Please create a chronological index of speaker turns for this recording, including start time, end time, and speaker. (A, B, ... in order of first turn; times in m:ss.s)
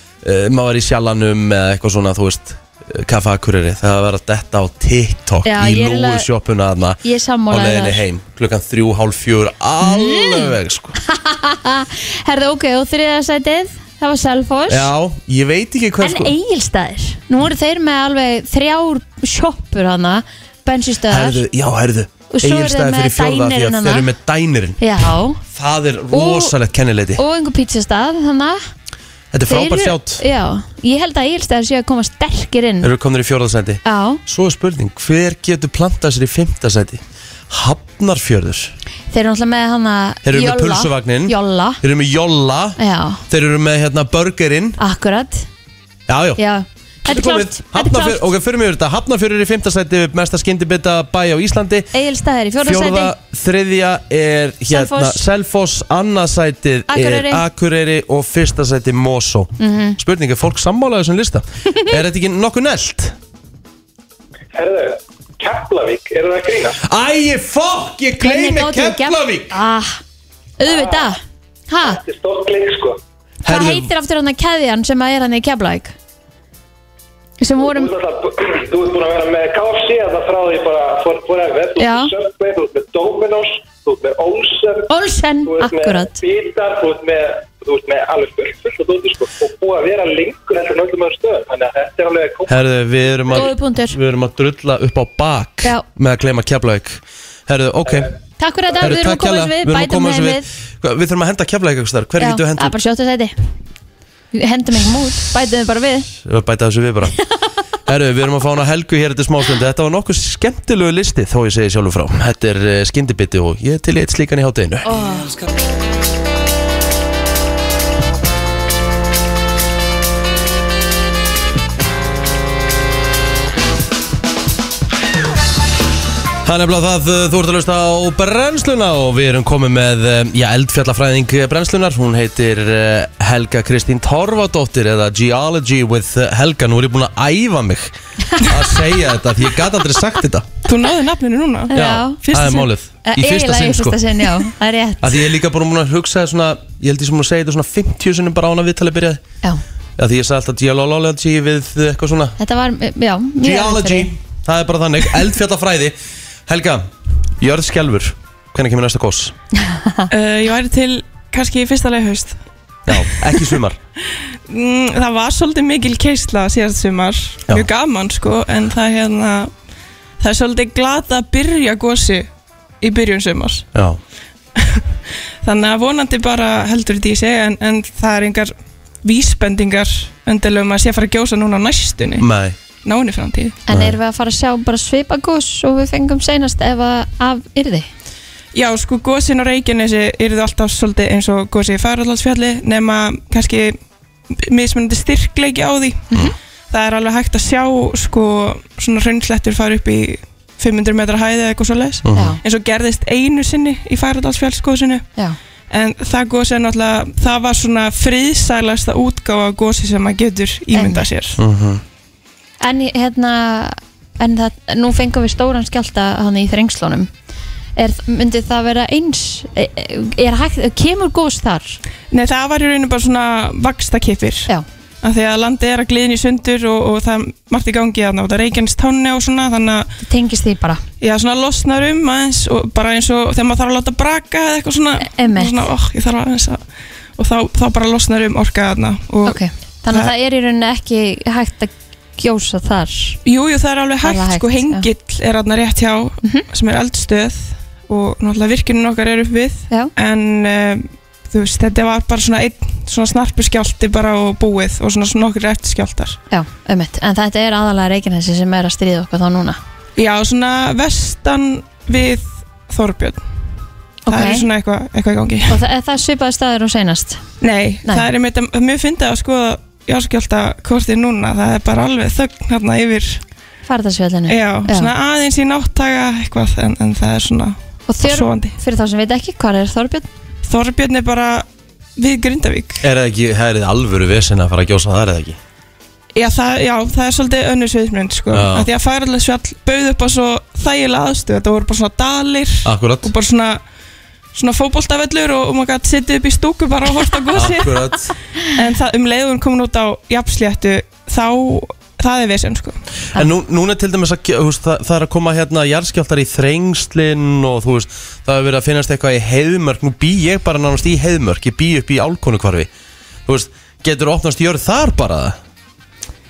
0:00.2-0:07.0 A
0:05.4-0:06.3 B
0:07.0-0:08.0 B
0:07.5-0:11.0 A
0:09.8-0:14.9 B
0:14.7-0:16.3 A
0:16.0-0:21.4 B
0:21.1-0:24.8 A
0:22.3-0:24.1 B
0:24.8-0:25.4 B
0:25.4-0:27.2 A
0:26.1-0:26.6 B
0:27.2-0:28.6 B
0:29.3-0:30.2 A
0:29.5-0:32.9 B
0:32.8-0:38.7 A
0:33.8-0:34.2 B
0:39.1-0:41.8 B
0:40.2-0:44.8 A
0:42.8-0:43.2 B
0:44.8-0:45.5 B
0:46.1-0:46.4 A
0:46.4-0:48.3 B
0:47.1-0:51.9 A
0:51.9-0:53.1 B
0:52.6-1:03.2 A
0:54.7-0:55.2 B
0:56.9-0:57.4 B
0:59.6-1:00.0 B
1:04.5-1:06.8 C
1:06.8-1:09.6 A
1:08.2-1:10.0 B
1:10.6-1:12.0 B
1:10.6-1:11.2 C
1:11.8-1:13.0 C
1:13.4-1:13.9 A
1:13.4-1:16.0 B
1:17.4-1:17.9 B
1:17.6-1:24.9 C
1:21.8-1:22.1 B
1:24.9-1:26.2 B
1:25.5-1:32.6 C
1:32.5-1:38.1 A
1:33.3-1:34.0 B
1:38.4-1:40.5 B
1:38.8-1:42.8 A
1:42.2-1:43.3 B
1:44.3-1:46.1 B
1:46.2-1:47.2 A
1:47.9-1:54.9 A
1:54.9-1:55.3 B
2:06.4-2:20.5 A
2:20.7-2:21.8 D
2:21.7-2:25.2 B
2:21.7-2:24.4 A
2:25.0-2:29.2 A
2:30.0-2:32.4 A
2:32.4-2:34.1 B
2:33.4-2:39.3 A
2:39.7-2:40.1 B
2:40.1-2:42.4 D
2:42.9-2:43.8 A
2:44.5-2:49.5 D
2:50.2-2:52.3 D
2:52.8-2:53.7 D
2:54.6-2:54.8 D
2:55.4-3:02.3 D
3:02.2-3:02.6 A
3:02.8-3:03.6 D
3:03.7-3:07.9 B
3:03.7-3:04.0 A
3:08.5-3:13.8 D
3:14.4-3:16.1 D
3:16.7-3:25.1 D
3:22.1-3:22.4 A
3:22.1-3:22.4 B
3:25.7-3:31.4 D
3:30.7-3:31.0 B
3:31.4-3:31.8 A
3:32.6-3:37.1 B
3:37.8-3:41.8 B
3:42.1-3:44.5 D
3:45.0-3:49.9 D
3:50.0-3:50.8 B
3:51.0-3:56.6 D
3:55.0-3:55.7 B
3:57.2-4:00.1 D
3:59.3-4:03.2 B
4:03.2-4:16.2 D
4:04.0-4:04.9 B
4:16.3-4:19.6 B
4:20.0-4:23.2 D
4:24.1-4:24.4 B
4:24.1-4:25.6 D
4:25.5-4:27.2 B
4:27.4-4:33.2 D
4:33.7-4:34.9 B
4:34.3-4:38.6 D
4:37.9-4:40.1 B
4:40.5-4:41.5 D
4:42.0-4:42.8 D
4:42.8-4:45.4 A
4:46.2-4:53.6 D
4:48.3-4:48.7 A
4:52.6-4:53.1 A
4:54.3-4:58.0 D
4:57.3-4:58.1 A
4:58.5-5:02.8 D
5:03.1-5:12.7 A
5:13.3-5:15.4 A